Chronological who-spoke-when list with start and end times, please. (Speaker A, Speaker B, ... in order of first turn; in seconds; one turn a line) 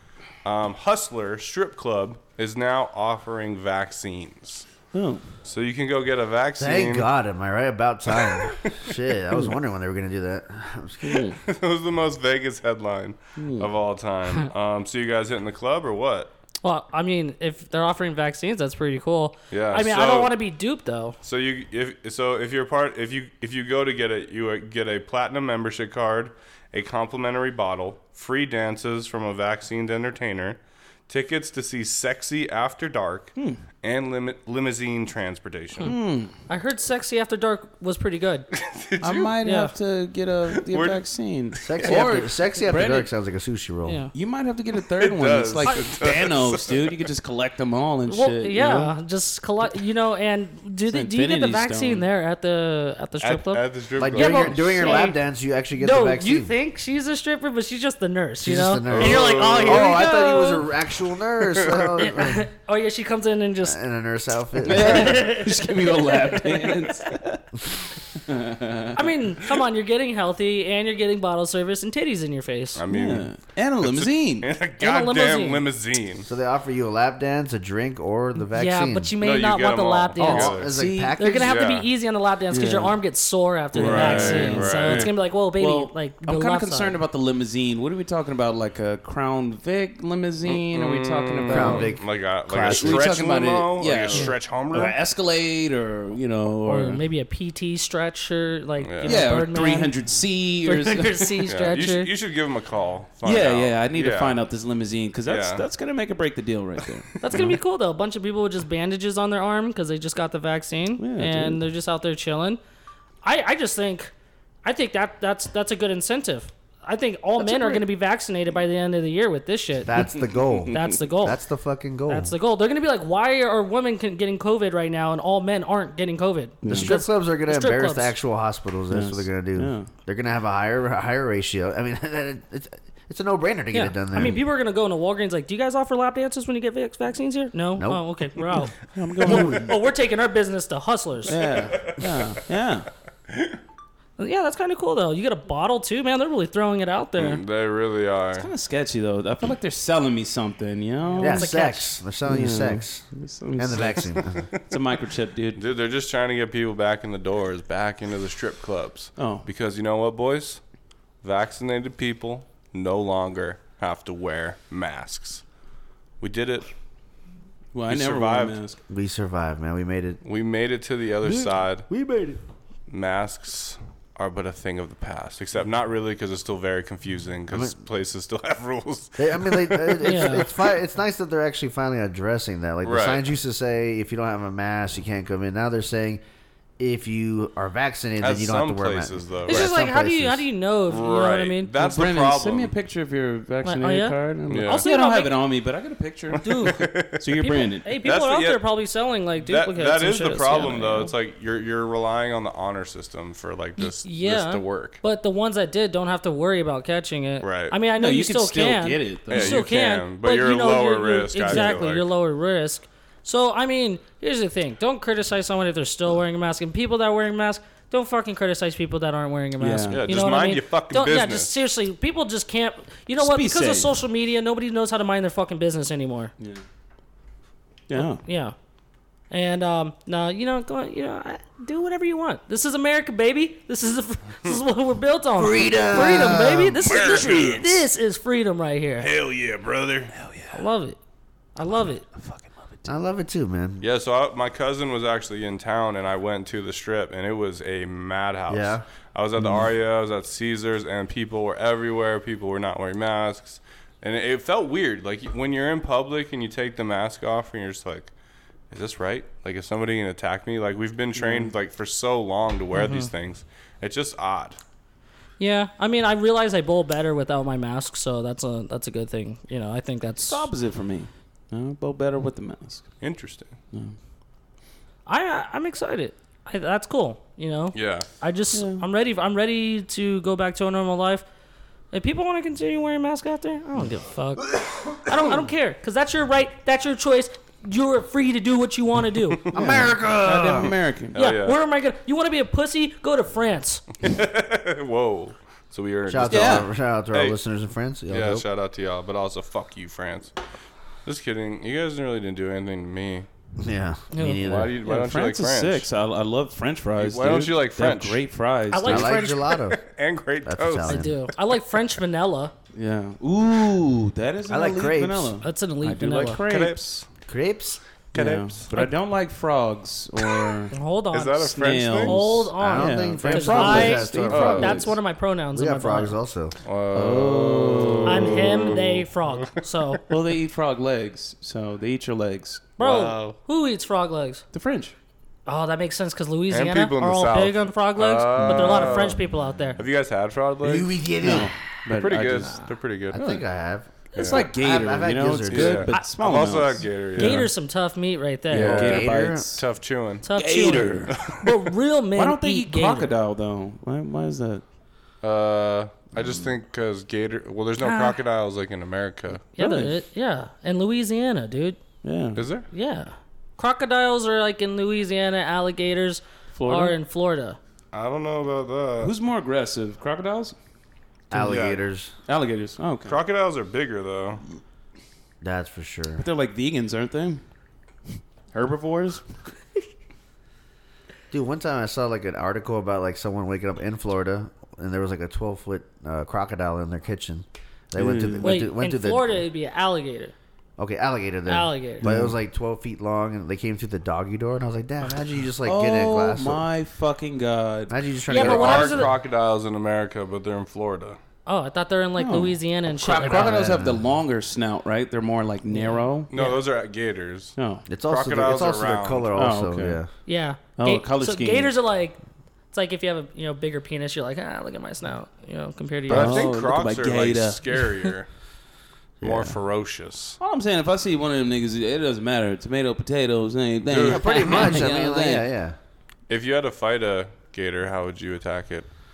Speaker A: 0.4-4.7
Speaker B: 4.9-5.2
Speaker A: 5.4-7.1
Speaker C: 6.6-11.3
Speaker A: 8.2-8.9
Speaker B: 11.0-11.4
Speaker A: 11.4-16.3
Speaker B: 13.4-13.7
Speaker D: 16.6-21.1
Speaker A: 19.5-20.3
Speaker A: 21.2-35.9
Speaker D: 35.8-38.5
Speaker B: 35.8-36.3
Speaker A: 38.5-39.3
Speaker B: 39.0-43.1
Speaker D: 39.4-39.7
Speaker A: 40.6-41.0
Speaker A: 41.5-42.0
Speaker C: 41.6-44.0
Speaker D: 43.9-44.1
Speaker B: 44.1-48.9
Speaker A: 44.9-47.0
Speaker D: 48.1-55.2
Speaker B: 50.9-52.0
Speaker A: 53.2-55.0
Speaker C: 54.0-56.5
Speaker D: 55.8-60.7
Speaker C: 58.4-62.5
Speaker A: 58.9-59.9
Speaker A: 61.4-62.1
Speaker D: 62.0-63.8
Speaker C: 63.6-65.2
Speaker B: 64.6-67.6
Speaker D: 64.7-67.0
Speaker B: 68.1-69.1
Speaker D: 68.9-72.8
Speaker A: 72.7-73.3
Speaker B: 72.9-74.5
Speaker A: 73.8-76.3
Speaker D: 74.8-75.6
Speaker C: 76.3-79.1
Speaker D: 78.5-80.7
Speaker A: 79.2-80.7
Speaker C: 80.2-81.6
Speaker B: 80.7-81.2
Speaker D: 81.2-87.0
Speaker A: 81.4-81.9
Speaker B: 82.5-83.0
Speaker B: 83.7-91.9
Speaker A: 83.8-85.1
Speaker A: 90.5-94.9
Speaker C: 91.5-93.1
Speaker B: 92.6-97.0
Speaker D: 96.7-99.9
Speaker A: 98.8-99.2
Speaker B: 99.0-101.4
Speaker D: 100.6-102.1
Speaker A: 101.5-104.4
Speaker B: 103.2-107.5
Speaker A: 105.2-105.6
Speaker D: 107.2-112.6
Speaker B: 111.0-111.6
Speaker D: 113.2-114.1
Speaker D: 114.6-120.1
Speaker B: 117.4-117.8
Speaker C: 119.8-122.3
Speaker D: 120.7-121.4
Speaker D: 122.1-128.1
Speaker B: 126.6-126.9
Speaker C: 126.7-134.4
Speaker B: 128.9-129.9
Speaker D: 133.7-141.4
Speaker C: 137.8-138.1
Speaker B: 138.9-139.7
Speaker B: 141.3-142.9
Speaker A: 141.5-142.2
Speaker A: 143.3-143.6
Speaker D: 144.2-147.4
Speaker A: 147.2-148.5
Speaker B: 148.3-151.5
Speaker D: 151.2-152.0
Speaker C: 151.2-153.0
Speaker B: 152.2-155.6
Speaker C: 153.6-154.5
Speaker A: 155.6-160.6
Speaker B: 159.2-159.4
Speaker A: 161.2-165.4
Speaker A: 166.2-166.7
Speaker B: 167.7-168.8
Speaker A: 167.9-168.6
Speaker C: 168.9-170.2
Speaker A: 170.2-171.9
Speaker C: 171.2-172.4
Speaker A: 172.9-180.6
Speaker C: 177.5-177.8
Speaker C: 179.2-186.2
Speaker D: 180.0-180.5
Speaker A: 182.8-183.2
Speaker C: 186.8-190.5
Speaker A: 188.2-189.7
Speaker D: 189.5-191.7
Speaker A: 190.9-192.7
Speaker B: 191.8-197.9
Speaker D: 193.6-195.3
Speaker A: 194.5-194.8
Speaker D: 196.4-201.1
Speaker A: 196.4-197.3
Speaker A: 198.0-198.6
Speaker A: 199.4-205.0
Speaker D: 203.8-226.3
Speaker A: 207.4-207.8
Speaker B: 207.9-209.7
Speaker A: 209.3-212.1
Speaker B: 211.5-211.8
Speaker B: 219.6-220.0
Speaker A: 219.9-221.5
Speaker B: 223.2-223.9
Speaker B: 227.9-228.2
Speaker D: 227.9-228.5
Speaker D: 229.3-239.1
Speaker C: 235.4-236.8
Speaker A: 236.8-237.8
Speaker A: 239.0-240.1
Speaker B: 240.1-240.6
Speaker D: 240.5-241.0
Speaker D: 241.6-242.0
Speaker B: 242.1-242.9
Speaker C: 242.8-243.8
Speaker A: 243.8-258.1
Speaker C: 248.5-248.8
Speaker A: 258.7-264.6
Speaker B: 261.1-261.5
Speaker D: 262.7-263.1
Speaker D: 265.4-270.5
Speaker B: 270.3-272.9
Speaker A: 273.0-273.5
Speaker D: 275.1-281.2
Speaker A: 277.7-278.1
Speaker B: 278.5-278.8
Speaker D: 281.9-289.4
Speaker A: 289.4-289.7
Speaker C: 289.5-290.7
Speaker B: 289.5-291.1
Speaker A: 291.1-291.6
Speaker D: 291.1-293.8
Speaker A: 294.0-297.4
Speaker C: 296.1-298.4
Speaker B: 296.3-296.7
Speaker A: 298.1-300.3
Speaker A: 301.0-303.3
Speaker C: 303.6-304.8
Speaker D: 304.1-304.4
Speaker A: 304.3-305.9
Speaker B: 304.8-309.1
Speaker A: 307.0-308.2
Speaker D: 308.7-309.6
Speaker C: 308.8-309.8
Speaker A: 309.7-311.1
Speaker C: 310.4-311.1
Speaker D: 310.8-312.5
Speaker B: 312.7-317.0
Speaker C: 314.5-315.4
Speaker D: 315.4-316.4
Speaker A: 316.1-317.1
Speaker C: 317.3-317.8
Speaker A: 318.1-318.7
Speaker B: 318.1-320.7
Speaker D: 320.7-326.1
Speaker A: 321.1-322.2
Speaker B: 321.4-325.0
Speaker C: 322.6-324.9
Speaker A: 324.3-324.8
Speaker C: 325.5-326.6
Speaker A: 326.6-329.5
Speaker B: 326.9-328.8
Speaker D: 328.1-330.0
Speaker B: 330.1-332.7
Speaker D: 332.8-334.4
Speaker A: 332.8-333.4
Speaker B: 334.5-334.9
Speaker D: 335.4-339.8
Speaker A: 336.5-339.2
Speaker B: 338.3-339.1
Speaker A: 339.8-340.9
Speaker C: 340.6-341.5
Speaker B: 341.2-342.6
Speaker A: 341.9-343.2
Speaker C: 343.1-345.9
Speaker B: 343.1-343.4
Speaker A: 344.1-344.4
Speaker B: 344.1-347.5
Speaker A: 345.5-347.4
Speaker D: 347.1-348.9
Speaker B: 348.5-349.6
Speaker C: 348.5-349.5
Speaker A: 348.5-351.5
Speaker D: 350.2-353.1
Speaker B: 350.3-351.1
Speaker B: 352.1-354.6
Speaker A: 355.2-359.4
Speaker D: 357.8-358.2
Speaker D: 359.5-361.8
Speaker B: 359.6-359.9
Speaker B: 362.0-362.4
Speaker A: 362.3-362.7
Speaker D: 362.7-367.6
Speaker B: 366.5-366.9
Speaker A: 367.9-369.1
Speaker B: 369.0-370.5
Speaker C: 371.3-372.1
Speaker A: 371.3-371.8
Speaker B: 372.3-373.2
Speaker A: 373.1-374.4
Speaker C: 375.4-376.2
Speaker B: 376.2-377.4
Speaker B: 378.5-379.4
Speaker C: 381.3-389.4
Speaker B: 387.9-388.6
Speaker D: 388.4-390.3
Speaker C: 390.8-396.6
Speaker D: 391.5-392.0
Speaker B: 392.0-392.3
Speaker B: 395.6-398.0
Speaker C: 397.9-399.1
Speaker D: 398.3-399.1
Speaker A: 398.3-401.2
Speaker D: 401.4-403.6
Speaker B: 402.2-406.3
Speaker C: 403.1-404.0
Speaker D: 405.7-406.6
Speaker A: 406.3-409.3
Speaker B: 407.6-407.9
Speaker C: 407.9-410.1
Speaker B: 409.3-410.0
Speaker D: 410.2-412.2
Speaker B: 410.8-411.7
Speaker D: 412.7-416.5
Speaker A: 416.1-418.3
Speaker B: 416.1-417.9
Speaker C: 419.2-419.6
Speaker A: 419.2-420.4
Speaker B: 420.4-425.5
Speaker A: 423.9-424.8
Speaker C: 424.0-425.8
Speaker A: 426.3-428.9